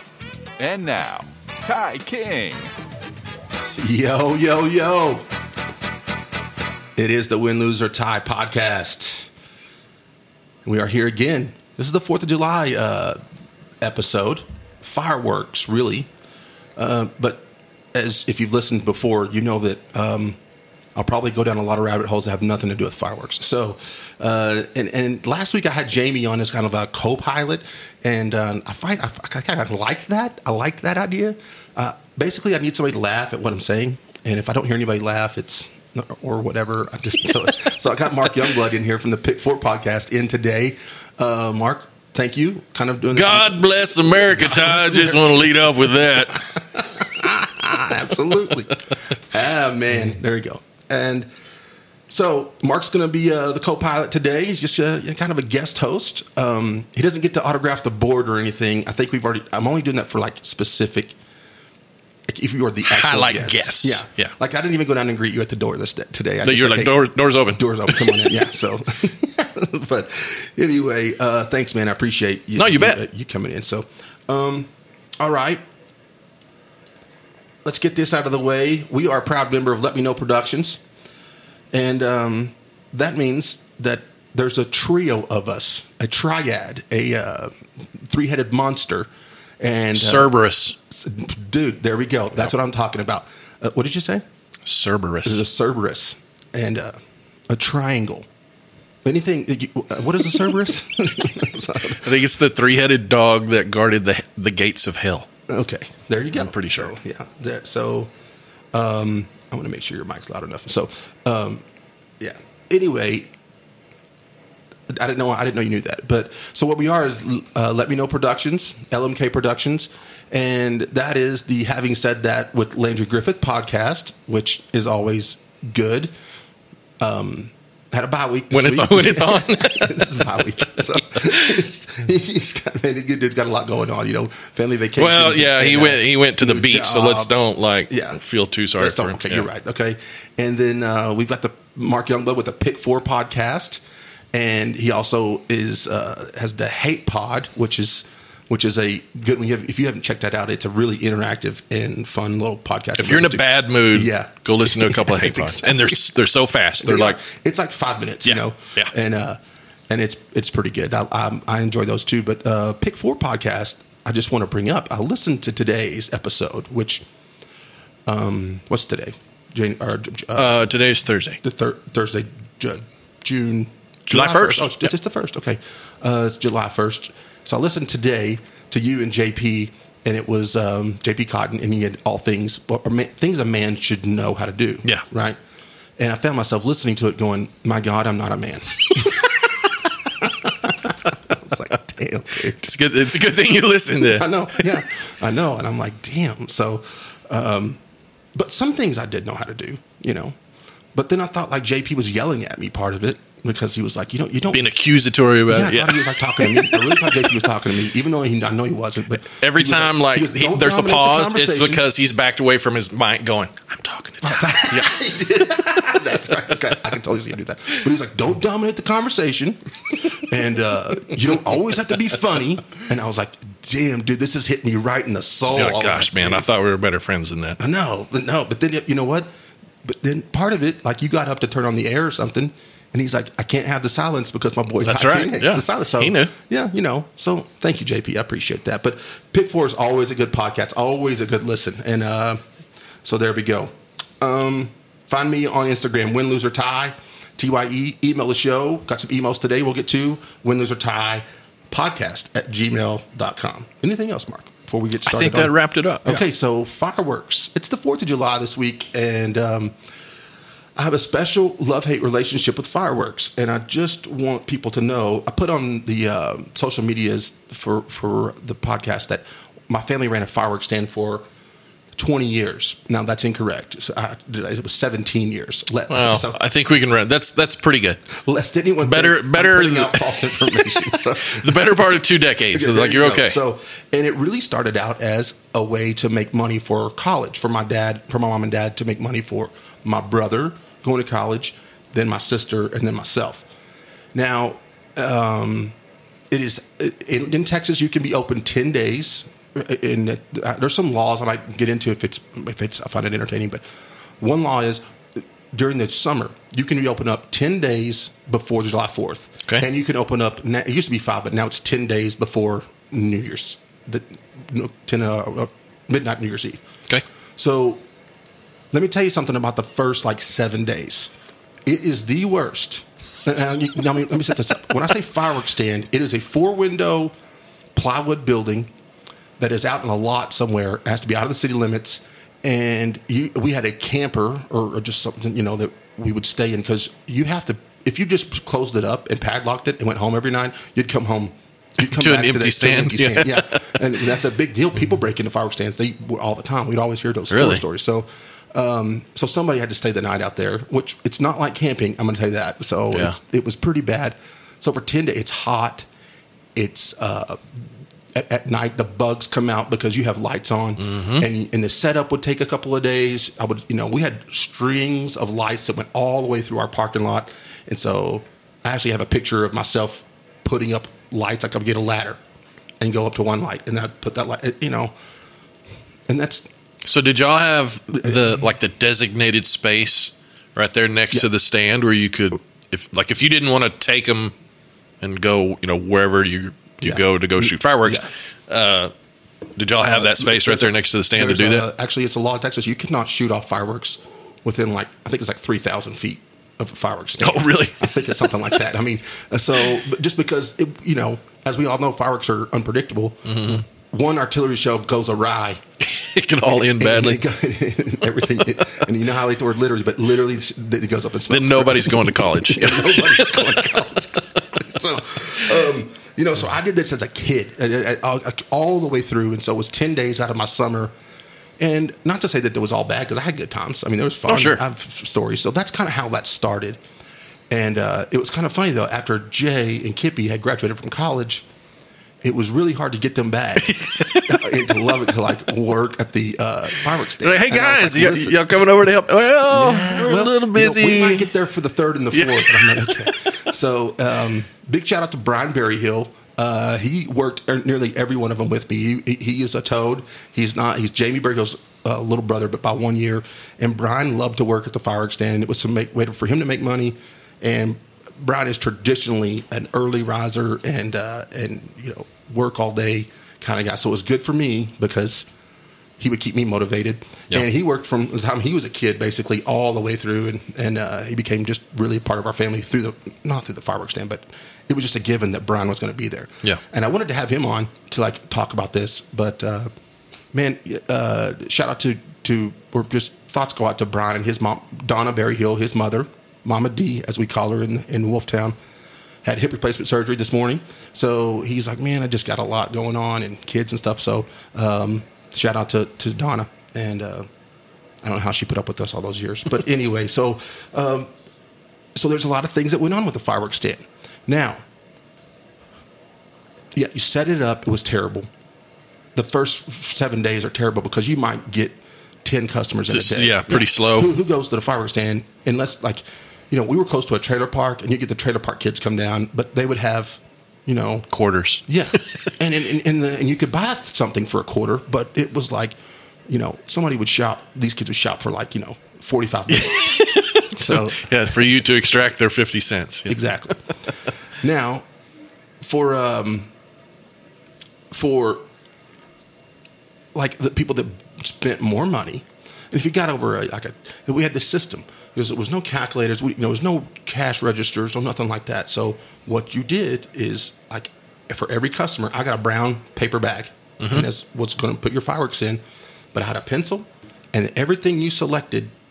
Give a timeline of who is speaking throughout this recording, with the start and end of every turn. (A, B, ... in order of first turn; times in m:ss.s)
0:00.6-0:02.7 A
0:03.8-0:05.2 B
0:07.0-0:09.3 B
0:10.6-0:13.2 B
0:13.8-0:16.1 B
0:16.8-0:20.4 B
0:20.9-0:45.5 B
0:43.1-0:46.9 C
0:46.3-0:51.3 B
0:52.1-1:01.1 B
1:02.3-1:15.6 B
1:02.8-1:04.3 C
1:06.4-1:08.4 C
1:12.6-1:13.0 C
1:17.6-1:20.8 B
1:21.7-1:27.6 B
1:28.1-1:29.1 B
1:29.6-1:30.3 B
1:29.9-1:30.8 C
1:30.9-1:34.2 B
1:34.6-1:35.4 C
1:35.2-1:37.0 B
1:37.5-1:38.3 B
1:39.0-1:42.1 B
1:41.9-1:45.3 C
1:45.5-1:48.1 B
1:46.3-1:46.9 C
1:48.7-1:51.6 B
1:52.2-1:53.3 B
1:54.9-2:06.1 B
2:07.0-2:17.3 B
2:08.5-2:11.4 C
2:15.0-2:19.4 C
2:17.9-2:18.2 B
2:18.8-2:23.8 B
2:24.3-2:36.1 B
2:33.0-2:37.2 C
2:36.8-2:47.0 B
2:38.2-2:38.9 C
2:48.1-2:50.7 B
2:50.3-2:51.4 C
2:51.4-3:05.4 B
2:54.1-2:54.9 C
3:06.0-3:12.7 B
3:12.6-3:14.7 C
3:14.0-3:17.8 B
3:18.3-3:20.4 B
3:20.9-3:24.7 B
3:24.5-3:27.3 C
3:25.5-3:31.8 B
3:29.3-3:35.0 C
3:34.2-3:46.5 B
3:45.5-3:47.6 C
3:47.6-3:49.3 B
3:49.8-4:02.4 B
3:54.8-3:56.3 C
4:03.0-4:19.7 B
4:15.0-4:16.2 C
4:20.8-4:31.2 B
4:32.0-4:36.4 B
4:35.9-4:38.0 C
4:38.1-4:41.8 B
4:38.8-4:43.4 C
4:42.5-4:53.4 B
4:54.1-4:55.7 B
4:56.3-5:03.6 B
5:04.2-5:16.6 B
5:17.4-5:17.8 B
5:18.7-5:21.1 B
5:21.6-5:27.1 B
5:27.7-5:28.7 B
5:29.4-5:55.9 B
5:41.8-5:43.8 C
5:47.3-5:47.6 C
5:52.9-5:53.2 C
5:56.6-5:57.4 B
5:58.1-6:12.2 B
6:00.8-6:01.2 C
6:12.8-6:14.9 B
6:16.1-6:16.5 B
6:16.8-6:24.3 C
6:25.0-6:28.9 C
6:26.8-6:28.1 B
6:29.6-6:31.6 C
6:29.8-6:45.6 B
6:37.2-6:38.6 C
6:43.3-6:43.6 C
6:45.8-6:47.2 C
6:46.6-7:00.9 B
6:51.3-6:54.0 C
7:01.6-7:06.8 B
7:04.3-7:04.6 C
7:07.5-7:11.4 B
7:12.2-7:18.7 B
7:13.6-7:14.4 C
7:17.2-7:21.3 C
7:19.4-7:45.3 B
7:22.1-7:23.1 C
7:46.0-7:59.7 B
8:00.3-8:08.5 B
8:09.2-8:17.3 B
8:18.0-8:21.1 B
8:22.0-8:24.6 B
8:26.7-8:28.3 B
8:29.1-8:41.1 B
8:32.9-8:34.1 C
8:41.1-8:41.6 C
8:41.6-8:45.7 B
8:46.3-8:51.2 B
8:49.5-8:53.2 C
8:53.1-8:53.7 B
8:54.4-8:54.8 B
8:55.6-8:56.5 B
8:57.9-8:58.4 B
9:00.1-9:15.6 B
9:13.8-9:14.0 C
9:16.1-9:18.7 B